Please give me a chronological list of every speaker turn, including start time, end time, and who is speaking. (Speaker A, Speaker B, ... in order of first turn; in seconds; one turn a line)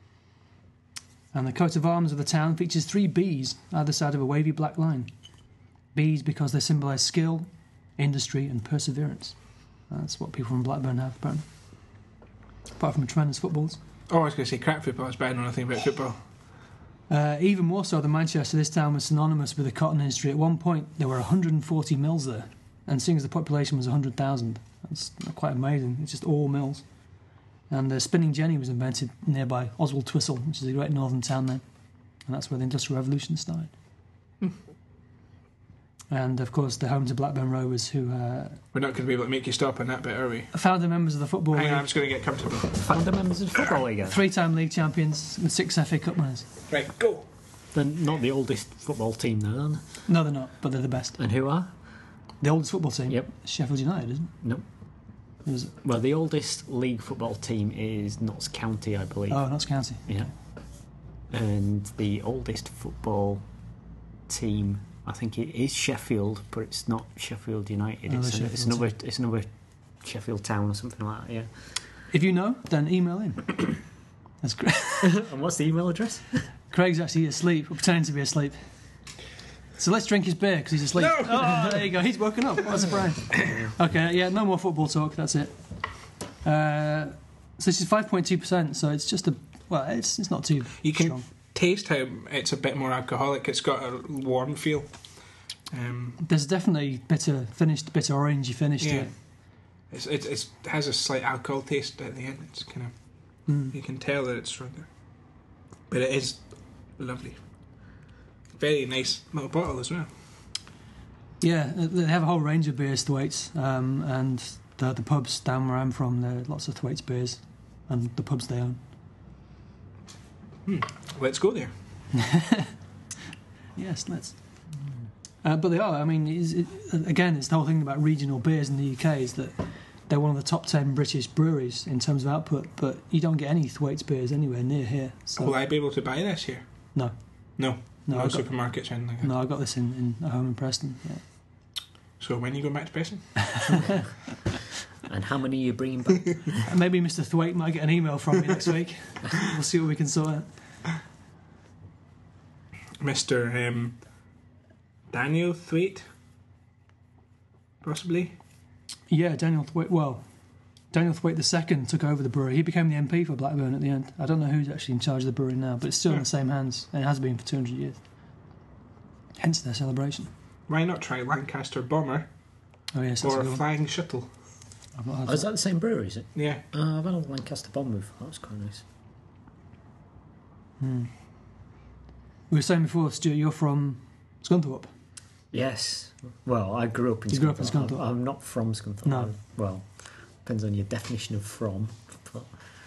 Speaker A: 1.3-5.1
Speaker A: 5.9-11.5
Speaker A: 12.8-13.8
Speaker B: 14.1-16.2
Speaker A: 17.1-26.9
Speaker A: 27.7-31.6
Speaker A: 32.3-33.7
Speaker A: 36.1-38.6
Speaker B: 38.7-40.5
Speaker A: 40.5-41.9
Speaker B: 41.5-43.0
Speaker C: 42.9-44.2
Speaker B: 43.5-43.8
Speaker A: 44.1-46.5
Speaker B: 46.7-47.3
Speaker C: 47.7-49.8
Speaker A: 50.1-51.2
Speaker C: 51.2-51.7
Speaker A: 52.4-54.3
Speaker A: 55.5-55.8
Speaker C: 55.8-59.5
Speaker A: 59.3-60.3
Speaker C: 60.1-60.3
Speaker C: 61.3-63.5
Speaker C: 64.3-71.5
Speaker A: 68.1-68.9
Speaker A: 72.1-73.8
Speaker A: 74.4-75.2
Speaker C: 75.0-76.5
Speaker A: 76.7-78.6
Speaker A: 79.8-91.2
Speaker B: 81.0-81.9
Speaker C: 83.5-83.7
Speaker B: 90.8-96.2
Speaker A: 96.2-99.1
Speaker B: 98.8-104.9
Speaker A: 103.5-103.8
Speaker B: 105.9-107.4
Speaker B: 108.6-110.1
Speaker A: 111.4-118.8
Speaker B: 120.7-121.7
Speaker A: 122.1-122.7
Speaker A: 123.8-124.4
Speaker A: 125.4-135.6
Speaker B: 135.4-136.9
Speaker A: 136.9-141.3
Speaker B: 137.6-139.4
Speaker B: 142.2-143.9
Speaker A: 143.7-144.0
Speaker C: 145.1-146.6
Speaker A: 146.7-150.5
Speaker B: 153.0-154.0
Speaker B: 155.1-156.0
Speaker B: 157.8-158.3
Speaker A: 159.1-160.3
Speaker A: 160.9-168.0
Speaker A: 169.4-170.3
Speaker B: 170.7-172.3
Speaker A: 172.9-173.6
Speaker B: 173.2-174.3
Speaker A: 175.0-175.5
Speaker C: 175.3-178.8
Speaker B: 176.3-176.6
Speaker A: 180.8-181.1
Speaker A: 182.5-184.9
Speaker C: 185.5-192.5
Speaker A: 187.3-188.0
Speaker A: 189.1-189.3